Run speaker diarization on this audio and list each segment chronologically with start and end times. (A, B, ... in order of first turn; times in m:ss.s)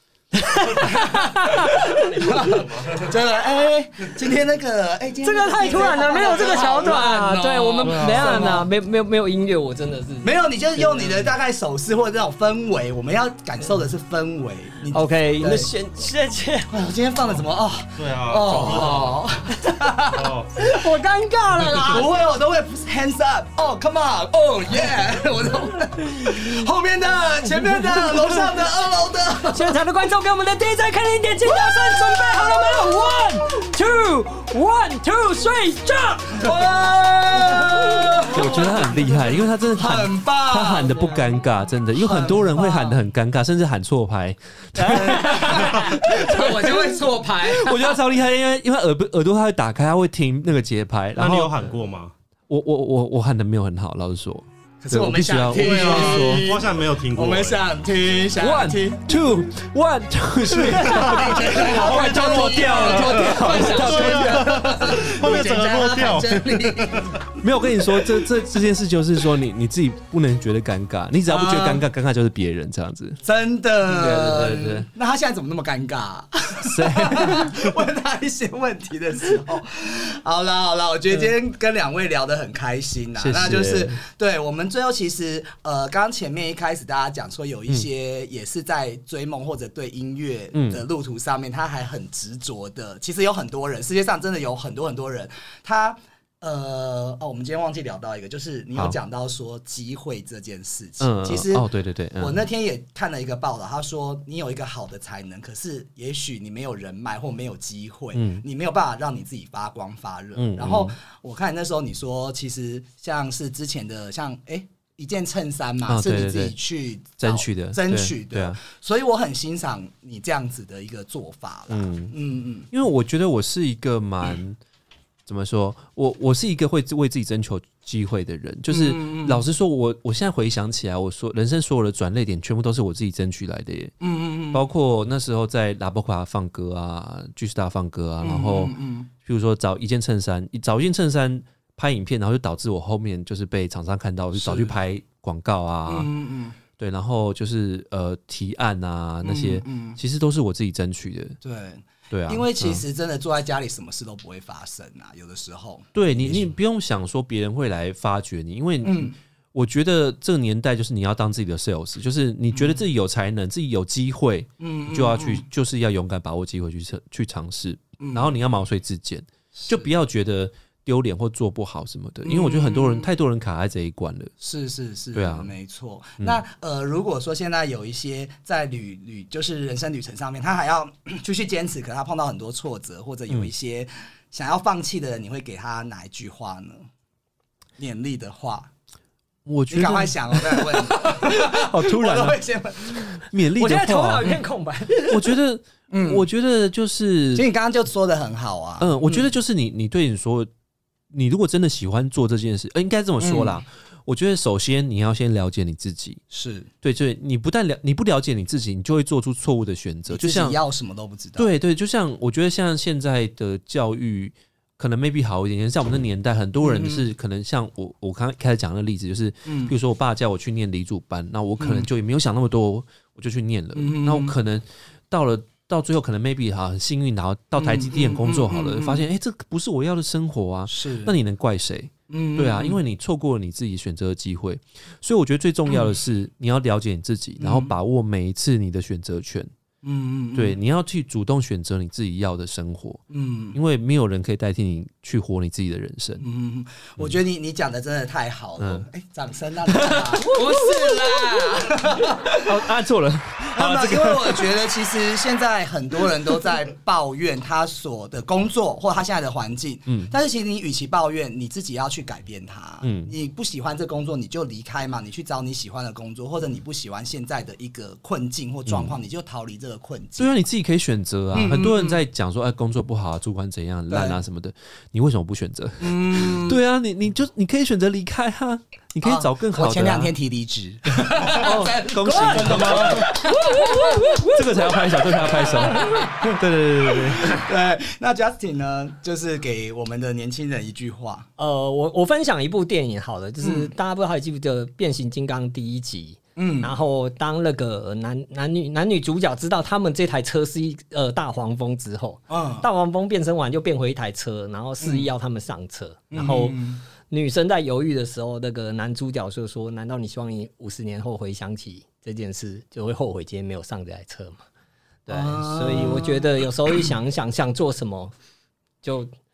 0:00.4-0:02.6 A
0:00.6-0:08.7 B
0:02.4-0:03.1 C
0:05.2-0:11.3 A
0:07.8-0:08.6 C
0:10.2-0:15.7 B
0:14.9-0:16.7 A
0:16.7-0:20.8 B
0:18.0-0:19.2 C
0:20.1-0:20.5 C
0:20.6-0:22.0 A
0:21.7-0:29.8 B
0:27.9-0:28.3 A
0:29.5-0:38.3 A
0:31.5-0:33.3 B
0:36.4-0:38.7 B
0:38.3-0:51.5 D
0:39.7-0:41.3 B
0:42.0-0:43.0 B
0:44.8-0:45.7 A
0:44.8-0:48.0 B
0:51.2-0:52.1 C
0:52.5-0:56.5 D
0:54.8-0:59.0 B
0:55.5-0:57.6 C
0:58.4-1:04.8 D
1:00.7-1:07.4 B
1:01.2-1:07.1 C
1:07.4-1:13.2 D
1:11.3-1:11.8 B
1:13.2-1:41.7 B
1:13.8-1:14.9 D
1:16.6-1:17.6 D
1:23.2-1:24.0 D
1:30.5-1:30.8 D
1:41.0-1:42.4 D
1:42.2-2:02.7 B
1:48.1-1:48.4 D
1:50.3-1:51.0 D
1:55.9-1:56.6 D
1:57.2-1:58.6 D
2:01.7-2:02.1 D
2:02.7-2:04.6 D
2:05.2-2:13.9 D
2:08.7-2:09.4 B
2:14.0-2:14.6 B
2:14.5-2:26.1 D
2:18.2-2:19.1 B
2:24.3-2:24.7 B
2:25.9-2:26.6 B
2:26.8-2:31.4 D
2:29.2-2:30.0 B
2:31.4-2:36.5 B
2:32.1-2:32.8 D
2:35.9-2:54.3 D
2:38.8-2:39.2 B
2:42.5-2:42.8 B
2:44.6-2:45.4 B
2:48.0-2:48.3 B
2:49.6-2:49.8 B
2:52.2-2:53.1 B
2:54.4-3:06.8 B
2:55.1-2:55.5 D
3:07.8-3:08.7 B
3:09.4-3:14.4 D
3:09.7-3:13.2 B
3:13.6-3:15.3 A
3:15.0-3:17.5 D
3:15.9-3:16.2 B
3:17.3-3:19.3 B
3:18.8-3:20.5 D
3:21.1-3:26.2 D
3:23.2-3:23.6 B
3:26.3-3:26.7 B
3:26.8-3:30.6 D
3:30.1-3:31.5 B
3:31.4-3:59.5 D
3:36.6-3:37.0 B
3:39.5-3:39.7 B
3:41.6-3:41.9 B
3:43.8-3:44.3 B
3:47.6-3:49.0 B
3:50.7-3:51.1 B
3:52.1-3:52.8 B
3:55.7-3:55.9 B
3:57.4-3:57.7 B
3:59.8-4:00.6 B
4:00.3-4:03.0 D
4:03.1-4:03.6 B
4:03.5-4:06.2 D
4:06.2-4:12.6 B
4:08.6-4:08.9 D
4:09.7-4:14.5 D
4:13.5-4:30.3 B
4:22.8-4:23.1 D
4:28.6-4:29.0 D
4:30.2-4:40.1 D
4:31.3-4:32.0 B
4:33.9-4:34.2 B
4:35.8-4:36.6 B
4:39.0-4:44.2 B
4:41.2-4:43.2 D
4:42.1-4:44.3 A
4:44.3-4:47.4 D
4:45.3-4:46.3 B
4:47.2-4:51.3 B
4:51.4-5:14.4 A
4:53.4-4:53.7 B
4:56.4-4:56.7 B
5:02.3-5:02.7 B
5:04.8-5:05.1 B
5:06.1-5:06.8 B
5:15.1-5:18.1 A
5:15.1-5:16.4 B
5:18.8-5:19.1 A